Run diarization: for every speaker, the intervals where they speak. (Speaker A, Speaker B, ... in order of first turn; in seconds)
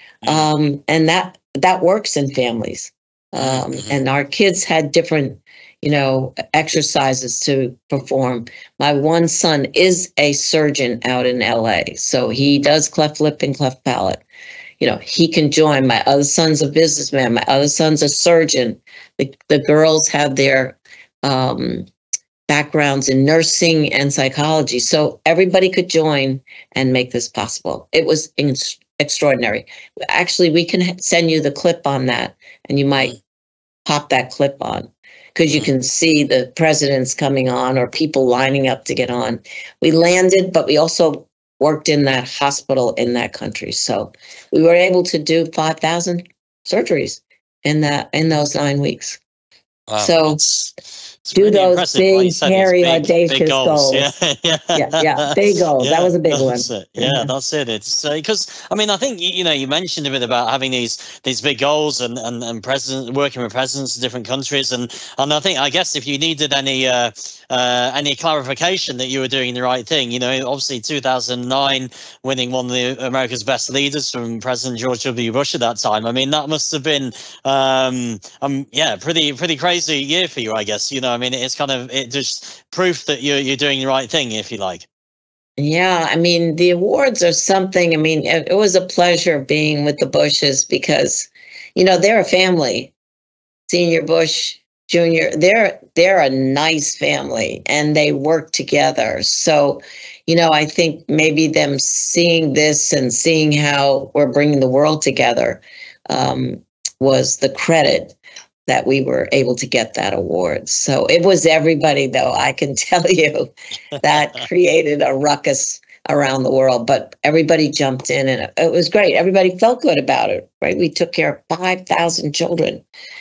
Speaker A: 0.2-0.5, 3.4-4.0, 49.9-84.9
Speaker B: 0.2-14.2, 14.8-21.9, 22.5-33.2, 33.9-49.2, 50.0-50.4, 51.3-54.1, 54.8-57.3, 85.6-92.9, 93.7-108.2, 108.7-122.8